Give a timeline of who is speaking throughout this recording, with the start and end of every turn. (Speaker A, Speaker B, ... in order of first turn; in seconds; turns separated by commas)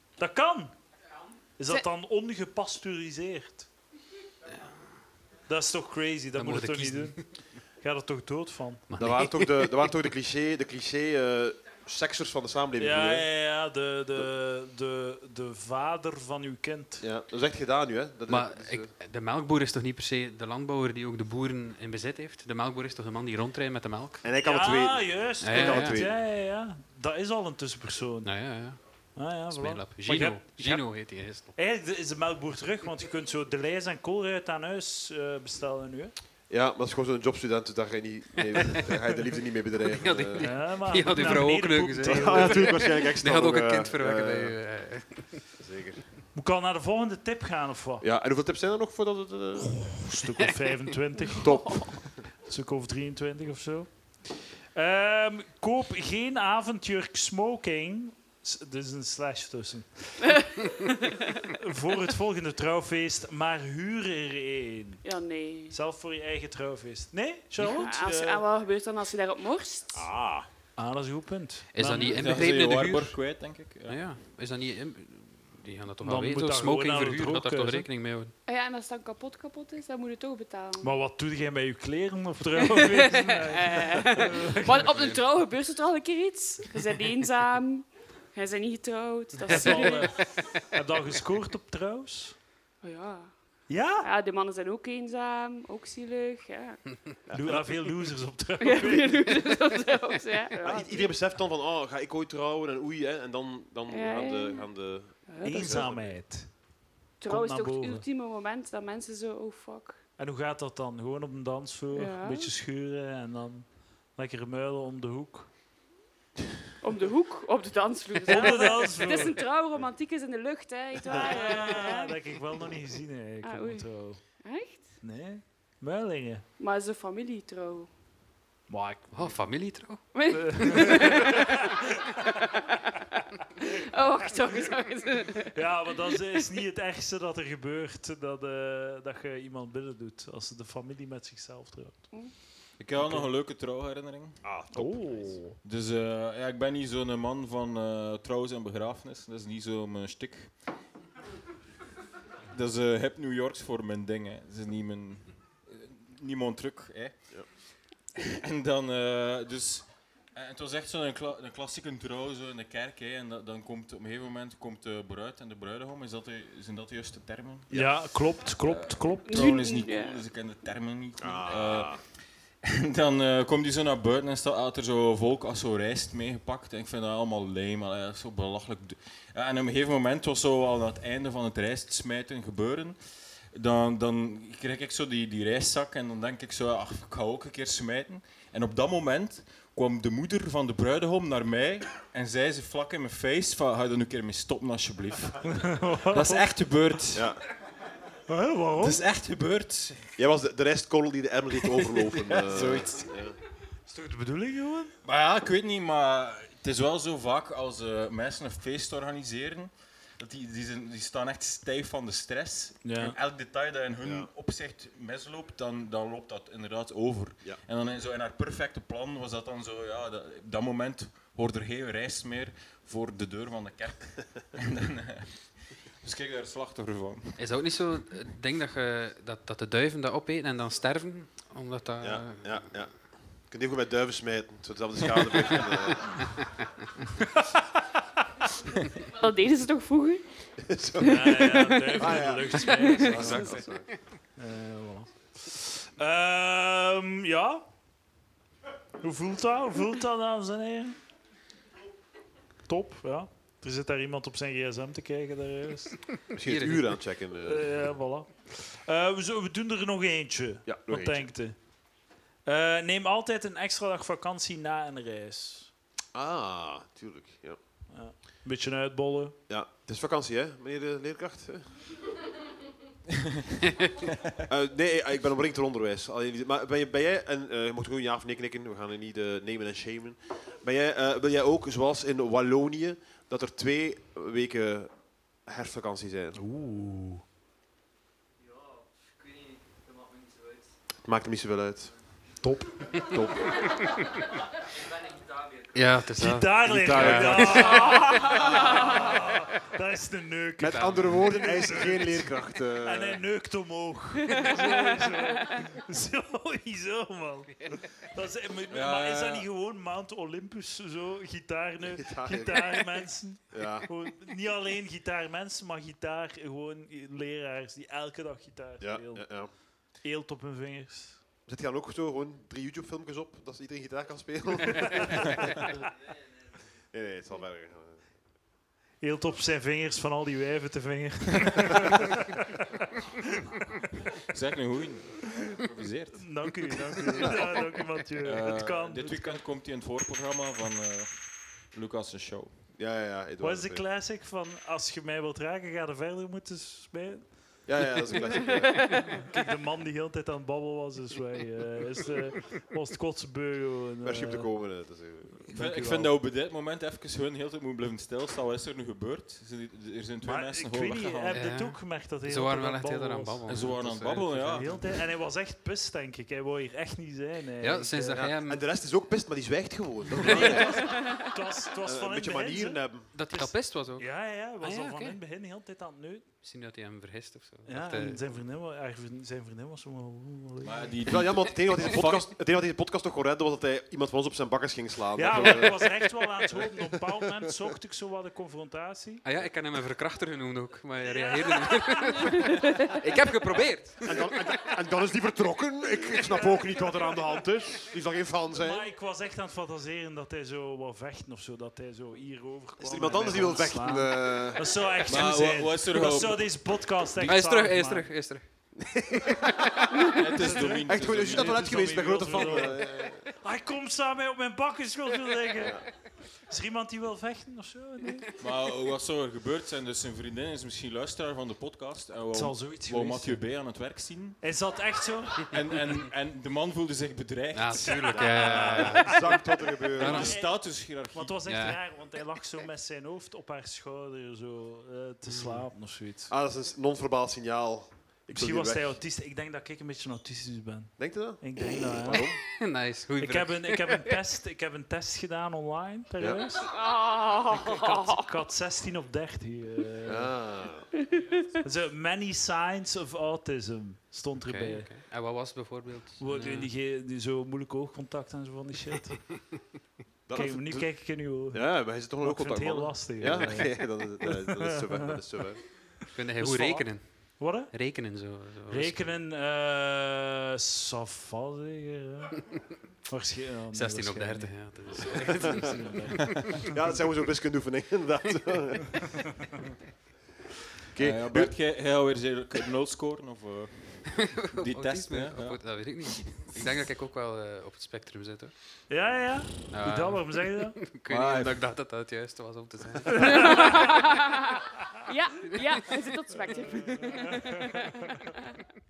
Speaker A: 0.2-0.7, Speaker A: 1.6-3.7, Speaker A: 5.5-8.9, Speaker B: 6.3-7.5, Speaker B: 8.9-9.7, Speaker C: 8.9-13.3, Speaker A: 12.8-17.0, Speaker C: 17.0-18.9, Speaker B: 18.3-24.2, Speaker C: 24.2-26.2, Speaker A: 24.4-28.5, Speaker B: 25.4-26.0, Speaker B: 28.2-28.8, Speaker A: 29.1-36.1, Speaker B: 29.4-31.5, Speaker C: 36.5-40.5, Speaker B: 39.8-45.5, Speaker A: 40.4-42.8, Speaker C: 42.0-44.6, Speaker C: 45.5-46.0, Speaker A: 46.3-48.0, Speaker C: 48.0-50.0, Speaker A: 49.5-60.6, Speaker D: 51.2-51.8, Speaker C: 51.4-52.2, Speaker D: 60.4-61.0, Speaker A: 61.5-65.0, Speaker D: 65.0-65.8, Speaker A: 65.7-68.4, Speaker D: 67.8-70.1, Speaker C: 69.9-70.5, Speaker A: 70.8-72.2, Speaker B: 71.7-73.2, Speaker E: 72.0-74.0, Speaker B: 73.9-78.3, Speaker A: 76.0-77.9, Speaker D: 78.4-80.9, Speaker A: 80.8-84.6, Speaker D: 82.6-90.4, Speaker B: 84.6-85.2, Speaker A: 89.5-92.4, Speaker B: 89.5-89.8, Speaker D: 92.8-93.3, Speaker A: 93.7-94.1, Speaker D: 94.0-96.8, Speaker C: 97.3-97.7, Speaker A: 97.3-99.6, Speaker D: 98.6-101.1, Speaker C: 100.6-106.2, Speaker D: 103.9-104.7, Speaker D: 105.3-105.8, Speaker A: 105.4-108.0, Speaker D: 107.2-110.0, Speaker A: 110.2-115.5, Speaker D: 111.9-112.5, Speaker D: 116.8-122.2, Speaker A: 118.3-119.4, Speaker A: 121.1-124.2, Speaker D: 123.4-125.0, Speaker A: 125.0-126.5, Speaker D: 126.6-127.9, Speaker A: 128.7-129.4, Speaker B: 129.1-130.9, Speaker D: 130.1-131.7, Speaker A: 130.3-132.3, Speaker D: 132.2-133.0, Speaker D: 133.6-136.4, Speaker A: 135.5-142.2, Speaker E: 142.8-144.4, Speaker A: 142.9-143.3, Speaker C: 144.4-145.4, Speaker A: 144.7-145.5, Speaker E: 145.6-150.5, Speaker E: 152.5-157.5, Speaker E: 158.1-172.0, Speaker A: 167.7-169.6, Speaker D: 169.3-170.2, Speaker C: 171.2-172.0, Speaker E: 172.6-183.0, Speaker E: 183.5-197.4, Speaker A: 195.5-196.5, Speaker C: 197.1-197.4, Speaker A: 198.3-199.0, Speaker E: 198.8-200.1, Speaker C: 200.2-203.3, Speaker E: 202.2-203.2, Speaker A: 203.9-204.9, Speaker E: 205.0-227.5, Speaker A: 212.8-213.2, Speaker C: 214.0-214.3, Speaker B: 227.4-232.7, Speaker C: 232.0-236.4, Speaker D: 239.1-240.4, Speaker C: 240.6-243.9, Speaker A: 241.0-243.6, Speaker D: 241.3-241.8, Speaker D: 242.7-243.5, Speaker B: 243.1-243.8, Speaker A: 244.3-247.7, Speaker A: 249.0-251.0, Speaker A: 252.7-256.1, Speaker C: 256.3-257.8, Speaker B: 256.4-256.8, Speaker A: 257.4-261.8, Speaker C: 260.6-261.3, Speaker A: 262.4-265.7, Speaker C: 266.1-267.6, Speaker A: 267.9-269.4, Speaker C: 269.5-271.7, Speaker C: 274.4-286.4, Speaker A: 286.3-287.2, Speaker C: 291.0-292.2, Speaker A: 292.4-292.7, Speaker C: 293.0-293.7, Speaker B: 295.7-297.8, Speaker A: 296.2-321.2, Speaker C: 296.6-298.8, Speaker C: 300.6-303.2, Speaker D: 304.3-305.0, Speaker E: 308.7-309.4, Speaker C: 311.9-312.9, Speaker C: 313.5-313.9, Speaker C: 318.8-319.5, Speaker C: 321.4-325.6, Speaker C: 326.9-328.0, Speaker A: 329.0-332.1, Speaker E: 334.2-337.3, Speaker A: 336.1-339.4, Speaker C: 337.1-337.6, Speaker E: 338.2-342.6, Speaker C: 342.7-343.8, Speaker A: 343.4-347.8, Speaker C: 347.6-348.9, Speaker D: 348.5-349.1, Speaker A: 349.0-354.5, Speaker C: 354.0-355.8, Speaker A: 355.4-356.1, Speaker E: 355.5-361.5, Speaker A: 360.2-363.5, Speaker B: 361.3-364.8, Speaker E: 363.5-365.0, Speaker A: 364.4-368.3, Speaker B: 367.6-368.6, Speaker C: 368.1-371.0, Speaker A: 370.2-376.3, Speaker B: 370.2-370.9, Speaker D: 370.8-371.2, Speaker C: 371.8-373.1, Speaker B: 373.1-375.2, Speaker B: 376.4-378.2, Speaker A: 377.6-381.0, Speaker E: 380.6-382.2, Speaker C: 381.0-387.7, Speaker A: 385.1-389.2, Speaker B: 389.2-394.4, Speaker D: 392.2-392.9, Speaker C: 394.0-398.9, Speaker A: 396.2-397.0, Speaker A: 398.5-408.1, Speaker C: 402.8-404.9, Speaker E: 405.1-406.8, Speaker B: 407.2-408.4, Speaker C: 408.8-410.2, Speaker E: 410.1-412.1, Speaker A: 410.3-415.9, Speaker C: 410.8-413.3, Speaker C: 415.6-415.9, Speaker A: 416.4-418.3, Speaker E: 418.4-424.4, Speaker A: 422.3-423.4, Speaker A: 424.4-425.6, Speaker E: 425.4-428.6, Speaker B: 427.5-429.4, Speaker C: 428.1-430.3, Speaker A: 429.9-436.3, Speaker E: 430.0-431.4, Speaker B: 430.0-430.3, Speaker B: 431.4-431.8, Speaker B: 435.3-435.6, Speaker C: 436.3-439.0, Speaker A: 438.3-442.4, Speaker C: 441.0-442.4, Speaker B: 442.6-444.1, Speaker A: 443.2-446.8, Speaker D: 446.7-448.3, Speaker A: 447.5-450.4, Speaker C: 450.0-450.9, Speaker D: 451.0-451.5, Speaker A: 451.6-454.9, Speaker B: 454.4-456.7, Speaker A: 456.2-459.3, Speaker C: 460.3-465.6, Speaker A: 460.3-465.1, Speaker B: 466.1-469.2, Speaker C: 466.4-466.8, Speaker A: 467.4-467.7, Speaker A: 468.7-476.9, Speaker B: 473.7-475.8, Speaker C: 476.7-479.2, Speaker C: 480.9-481.5, Speaker E: 480.9-486.7, Speaker B: 484.4-488.5, Speaker A: 488.9-490.8, Speaker B: 489.7-493.8, Speaker E: 491.1-491.6, Speaker D: 493.2-498.6, Speaker A: 493.2-493.7, Speaker A: 496.5-497.7